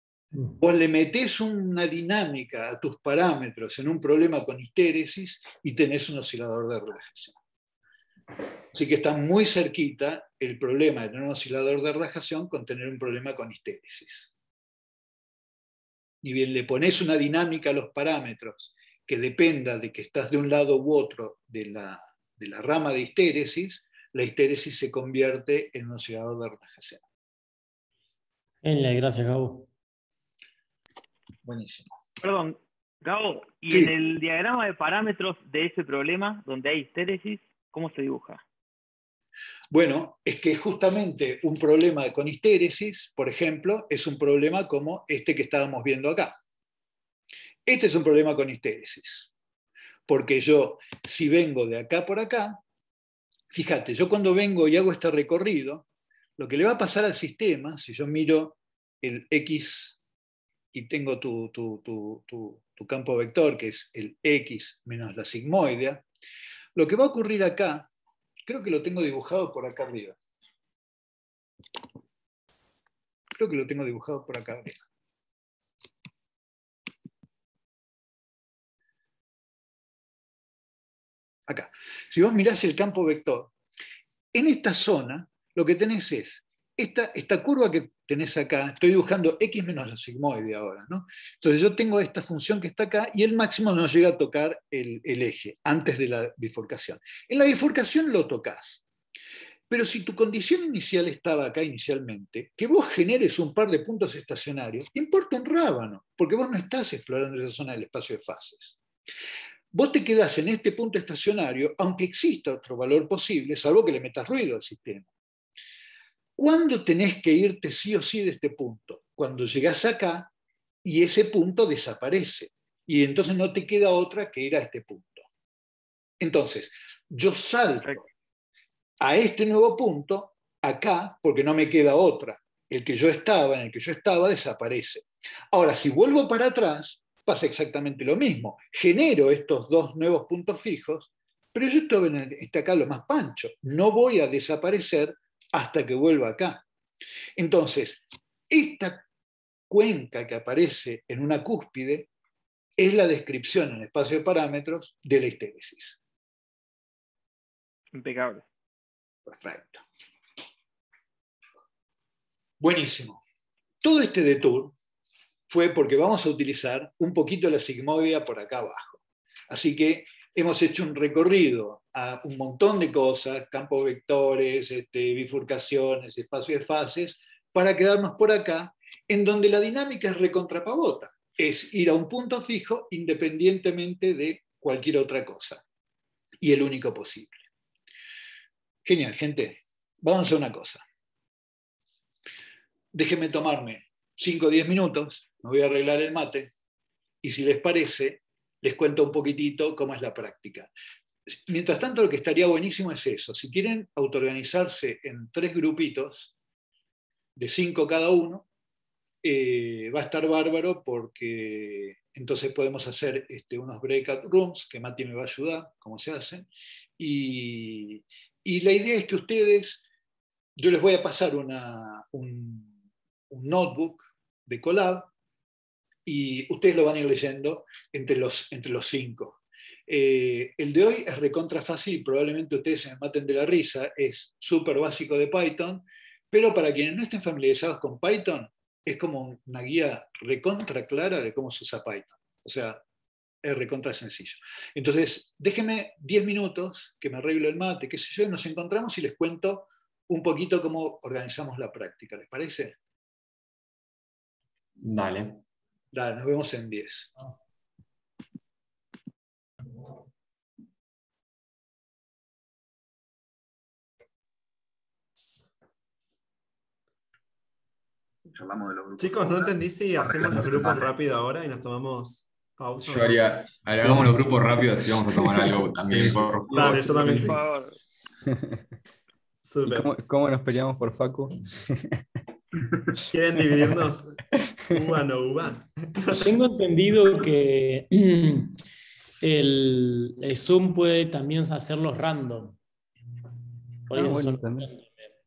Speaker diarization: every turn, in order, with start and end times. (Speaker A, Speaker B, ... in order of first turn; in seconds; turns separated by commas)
Speaker A: 0.6-7.4, Speaker A: 8.7-14.3, Speaker A: 16.2-27.0, Speaker B: 28.6-29.7, Speaker A: 31.4-31.9, Speaker C: 32.2-38.4, Speaker A: 39.7-46.4, Speaker A: 47.7-49.3, Speaker A: 50.1-52.6, Speaker A: 53.5-55.9, Speaker A: 56.4-60.0, Speaker A: 60.7-66.0, Speaker A: 66.8-67.9, Speaker A: 68.5-70.2, Speaker A: 73.4-74.8, Speaker A: 81.5-83.5, Speaker A: 84.3-98.8, Speaker A: 99.7-108.8, Speaker A: 109.7-115.1, Speaker A: 116.4-120.3, Speaker A: 120.8-125.3, Speaker A: 126.2-128.0, Speaker A: 129.0-146.7, Speaker A: 147.4-149.1, Speaker A: 149.7-152.1, Speaker A: 152.8-156.0, Speaker C: 157.9-158.4, Speaker A: 159.3-159.8, Speaker A: 162.6-163.2, Speaker A: 163.8-164.8, Speaker A: 165.5-185.6, Speaker A: 186.4-187.5, Speaker A: 188.8-190.8, Speaker A: 192.9-196.5, Speaker A: 197.2-200.7, Speaker A: 201.3-206.3, Speaker A: 207.4-208.5, Speaker A: 209.2-216.5, Speaker A: 217.0-219.8, Speaker A: 220.6-222.7, Speaker A: 223.3-225.1, Speaker A: 226.1-242.8, Speaker A: 243.4-252.8, Speaker D: 254.8-255.4, Speaker A: 255.9-257.1, Speaker E: 268.3-270.9, Speaker F: 269.0-274.0, Speaker D: 272.8-277.3, Speaker F: 276.0-277.4, Speaker C: 276.8-277.8, Speaker G: 278.3-278.6, Speaker F: 279.4-279.9, Speaker G: 279.7-282.0, Speaker F: 283.1-286.4, Speaker B: 286.2-288.6, Speaker B: 289.2-292.6, Speaker B: 293.9-294.9, Speaker G: 293.9-294.7